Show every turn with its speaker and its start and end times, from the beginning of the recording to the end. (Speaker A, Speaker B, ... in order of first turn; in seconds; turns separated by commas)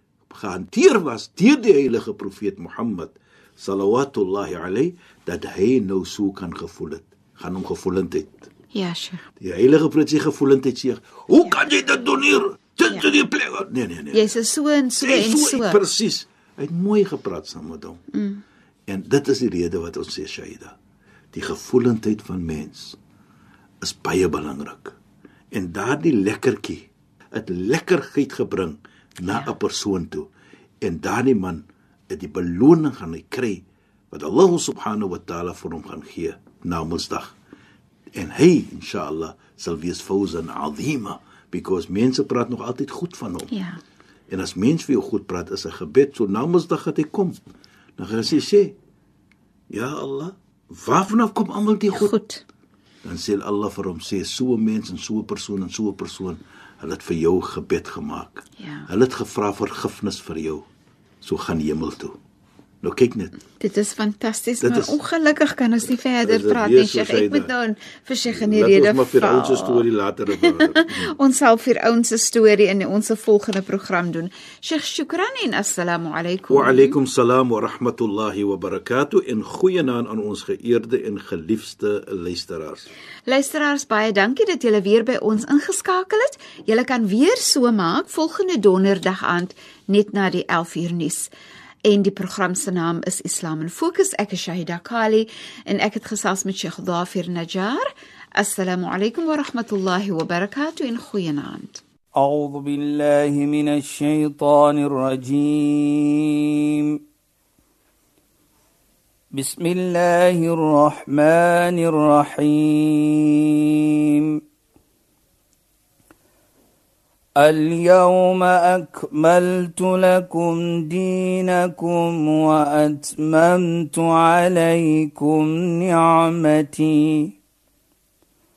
Speaker A: 0.3-8.5, Speaker B: 8.7-9.2, Speaker A: 9.4-14.3, Speaker B: 14.1-15.8, Speaker A: 15.0-18.0, Speaker B: 18.1-18.4, Speaker A: 18.9-20.8, Speaker A: 21.3-23.0, Speaker A: 23.8-25.0, Speaker A: 25.5-30.3, Speaker A: 30.8-37.4, Speaker A: 38.1-43.5, Speaker B: 43.5-43.8, Speaker A: 44.3-47.4, Speaker A: 48.0-48.7, Speaker A: 49.7-52.1, Speaker B: 51.9-52.4, Speaker A: 53.0-60.7, Speaker B: 58.6-58.9, Speaker A: 61.2-62.2, Speaker A: 62.8-63.4, Speaker B: 63.6-77.0, Speaker A: 64.6-65.0, Speaker A: 66.2-67.5, Speaker A: 68.3-71.2, Speaker A: 76.5-82.9, Speaker B: 83.3-91.3, Speaker B: 91.9-101.8, Speaker C: 102.2-107.0, Speaker C: 109.3-114.4, Speaker C: 117.4-127.4